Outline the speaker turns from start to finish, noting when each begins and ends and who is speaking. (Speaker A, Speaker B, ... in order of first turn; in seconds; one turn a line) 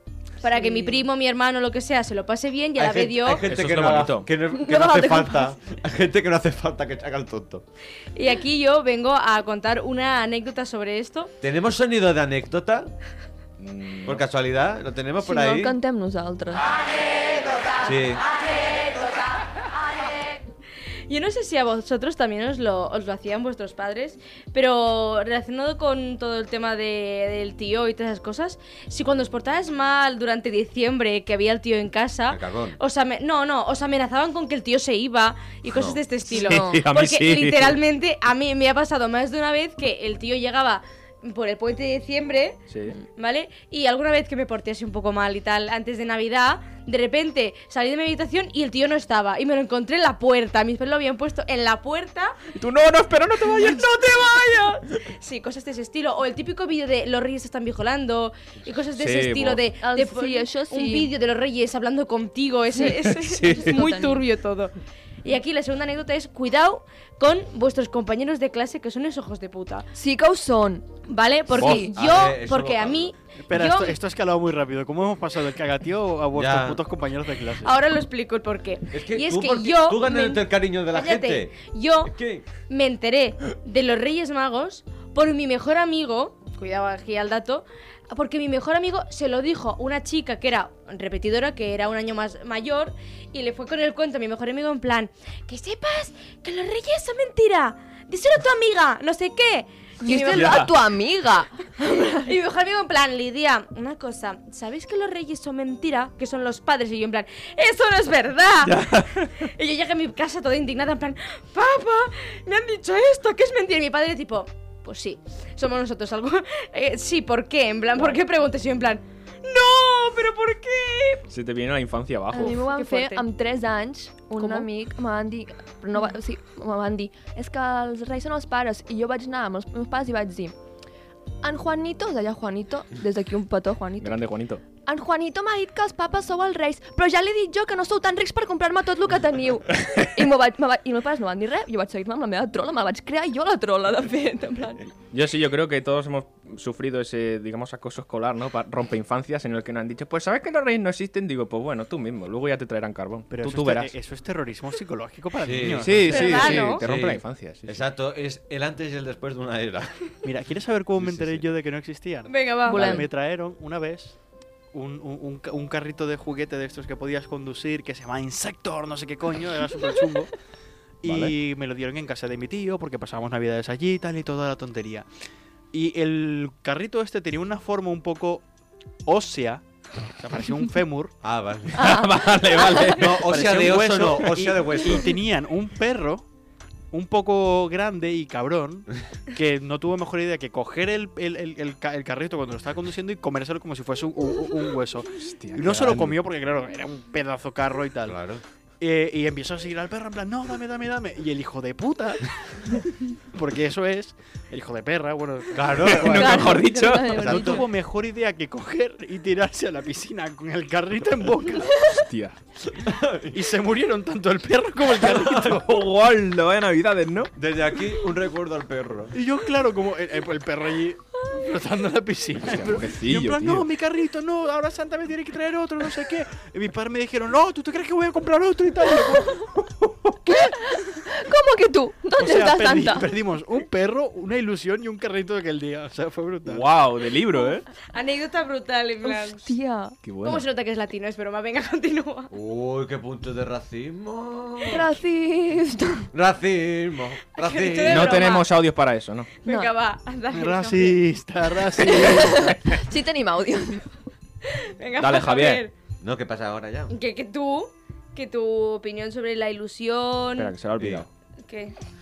Speaker A: 0.4-3.5
Speaker B: 0.6-1.0
Speaker C: 2.8-7.6
Speaker D: 3.4-4.3
Speaker B: 4.5-5.5
Speaker A: 8.2-11.3
Speaker C: 11.4-12.9
Speaker D: 13.6-14.2
Speaker C: 14.1-15.8
Speaker B: 15.2-16.7
Speaker C: 17.8-18.2
Speaker A: 21.1-42.6
Speaker C: 32.3-32.8
Speaker C: 35.7-36.0
Speaker D: 36.3-37.8
Speaker B: 36.4-36.8
Speaker D: 42.7-43.0
Speaker A: 43.2-52.5
Speaker D: 52.5-54.8
Speaker A: 53.5-69.9
Speaker D: 59.0-59.6
Speaker B: 59.8-61.1
Speaker D: 62.8-63.8
Speaker B: 63.4-64.2
Speaker B: 69.9-70.8
Speaker A: 71.1-74.0
Speaker C: 71.5-73.1
Speaker E: 73.5-77.7
Speaker C: 76.3-76.8
Speaker A: 77.6-82.1
Speaker C: 78.9-82.5
Speaker A: 82.7-100.7
Speaker B: 100.0-102.3
Speaker D: 100.3-100.7
Speaker A: 102.2-121.2
Speaker D: 108.6-109.5
Speaker D: 121.3-122.6
Speaker B: 122.3-130.5
Speaker A: 122.4-123.2
Speaker A: 124.4-124.7
Speaker B: 131.4-134.2
Speaker D: 134.0-134.6
Speaker B: 134.8-144.9
Speaker D: 145.1-153.9
Speaker E: 153.3-156.7
Speaker C: 155.4-156.2
Speaker D: 155.8-157.8
Speaker A: 156.1-156.8
Speaker C: 156.8-159.9
Speaker E: 160.2-164.2
Speaker D: 161.0-161.4
Speaker A: 162.3-163.0
Speaker B: 162.7-163.1
Speaker E: 164.7-170.3
Speaker E: 171.0-175.1
Speaker D: 171.1-171.3
Speaker E: 175.7-178.4
Speaker E: 179.1-179.6
Speaker E: 180.2-181.2
Speaker C: 181.2-182.0
Speaker D: 181.7-183.3
Speaker B: 181.8-182.9
Speaker C: 183.0-185.1
Speaker E: 183.3-186.2
Speaker E: 186.9-198.2
Speaker D: 195.2-196.2
Speaker C: 198.1-198.4
Speaker E: 198.8-202.8
Speaker E: 203.3-211.9
Speaker C: 205.5-206.4
Speaker D: 205.8-207.4
Speaker B: 206.2-207.7
Speaker C: 207.2-207.6
Speaker D: 211.8-212.4
Speaker C: 212.8-213.5
Speaker E: 213.3-215.8
Speaker C: 215.1-215.6
Speaker D: 215.4-217.3
Speaker C: 217.4-219.1
Speaker E: 219.1-229.5
Speaker D: 222.4-223.7
Speaker B: 230.3-233.1
Speaker E: 232.2-236.7
Speaker D: 236.5-237.7
Speaker A: 237.9-239.5
Speaker B: 239.0-240.0
Speaker D: 240.0-240.5
Speaker A: 240.2-242.3
Speaker C: 242.3-244.9
Speaker B: 244.7-246.1
Speaker C: 246.1-248.3
Speaker A: 247.4-248.5
Speaker D: 247.9-249.3
Speaker A: 249.4-251.0
Speaker B: 249.5-249.7
Speaker E: 250.3-252.5
Speaker B: 251.8-253.9
Speaker A: 251.8-252.1
Speaker A: 254.4-255.7
Speaker D: 255.0-255.6
Speaker C: 256.0-256.9
Speaker A: 256.9-260.5
Speaker D: 260.4-261.1
Speaker A: 261.5-261.8